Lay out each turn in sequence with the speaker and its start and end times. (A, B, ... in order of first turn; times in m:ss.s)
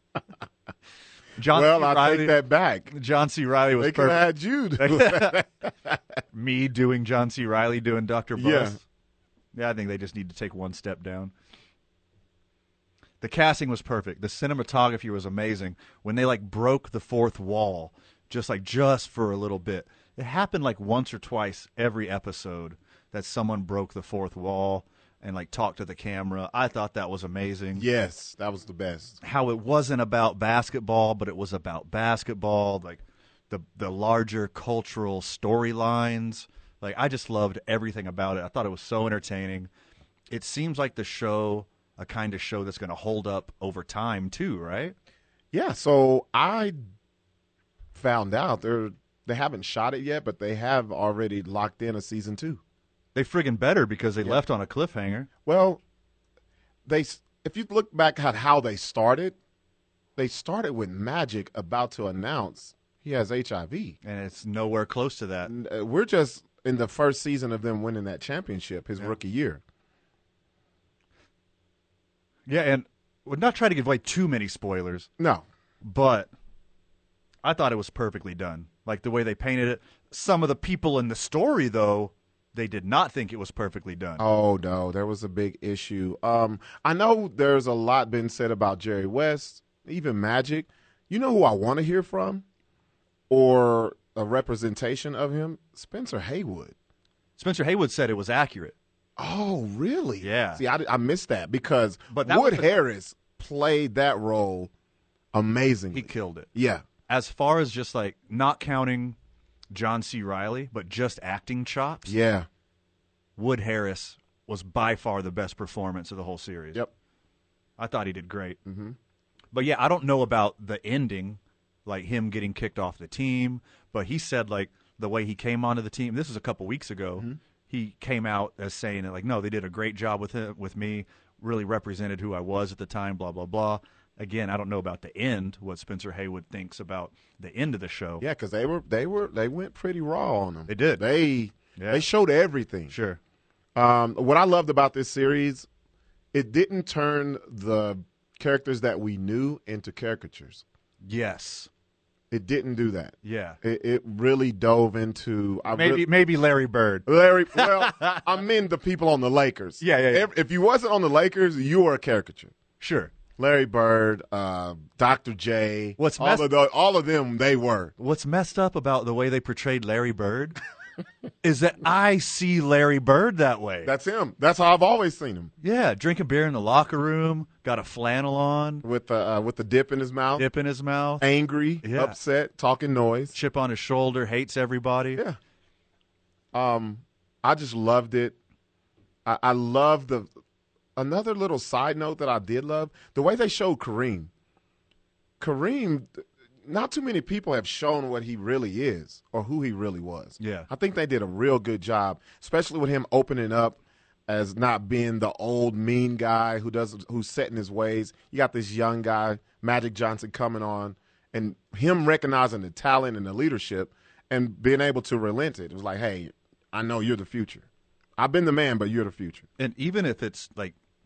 0:01.4-0:02.3 A
0:01.5-0:02.9 B
0:02.9-0:04.2 A
0:03.8-0:06.0 B
0:04.8-0:05.4 A
0:06.3-0:08.8 A
0:08.4-0:08.8 B
0:09.6-0:11.3 A
0:13.2-0:27.8 A
0:27.8-0:29.2 B
0:29.2-0:39.7 A
0:40.3-0:44.9 A
0:45.5-0:46.8 B
0:48.0-0:52.6 B
0:53.2-0:55.3 A
0:55.5-0:55.8 B
0:56.9-0:59.4 B
1:00.2-1:04.0 B
1:04.0-1:05.5 A
1:05.4-1:09.6 B
1:12.5-1:15.1 A
1:15.2-1:15.4 B
1:15.8-1:16.3 A
1:17.4-1:24.2 A
1:24.2-1:32.4 B
1:33.3-1:36.8 B
1:37.4-1:38.8 A
1:39.2-1:44.7 B
1:40.2-1:40.6 A
1:42.1-1:42.7 A
1:45.3-1:46.8 B
1:45.9-1:46.5 A
1:47.1-1:49.2 A
1:49.7-1:52.2 A
1:52.1-1:52.5 B
1:53.4-1:56.8 A
1:57.8-1:58.6 A
1:58.7-1:59.0 B
1:59.5-2:18.2 A
2:18.2-2:23.0 B
2:20.7-2:21.0 A
2:21.8-2:22.1 A
2:22.9-2:23.2 A
2:23.8-2:25.7 B
2:26.3-2:30.6 B
2:31.1-2:31.7 A
2:32.3-2:36.1 B
2:33.2-2:33.6 A
2:35.7-2:38.2 A
2:37.1-2:42.5 B
2:39.8-2:40.3 A
2:42.8-2:43.2 A
2:43.4-2:47.9 B
2:46.0-2:46.5 A
2:48.0-2:50.6 A
2:51.4-2:53.9 A
2:53.8-2:55.5 B
2:55.6-2:58.8 A
2:58.8-3:00.5 B
3:00.4-3:01.2 A
3:01.2-3:03.4 B
3:01.8-3:02.2 A
3:03.3-3:05.2 A
3:06.5-3:08.4 B
3:09.2-3:10.3 B
3:11.0-3:14.3 B
3:15.4-3:37.7 B
3:20.4-3:20.7 A
3:38.2-3:39.5 B
3:39.6-3:40.8 A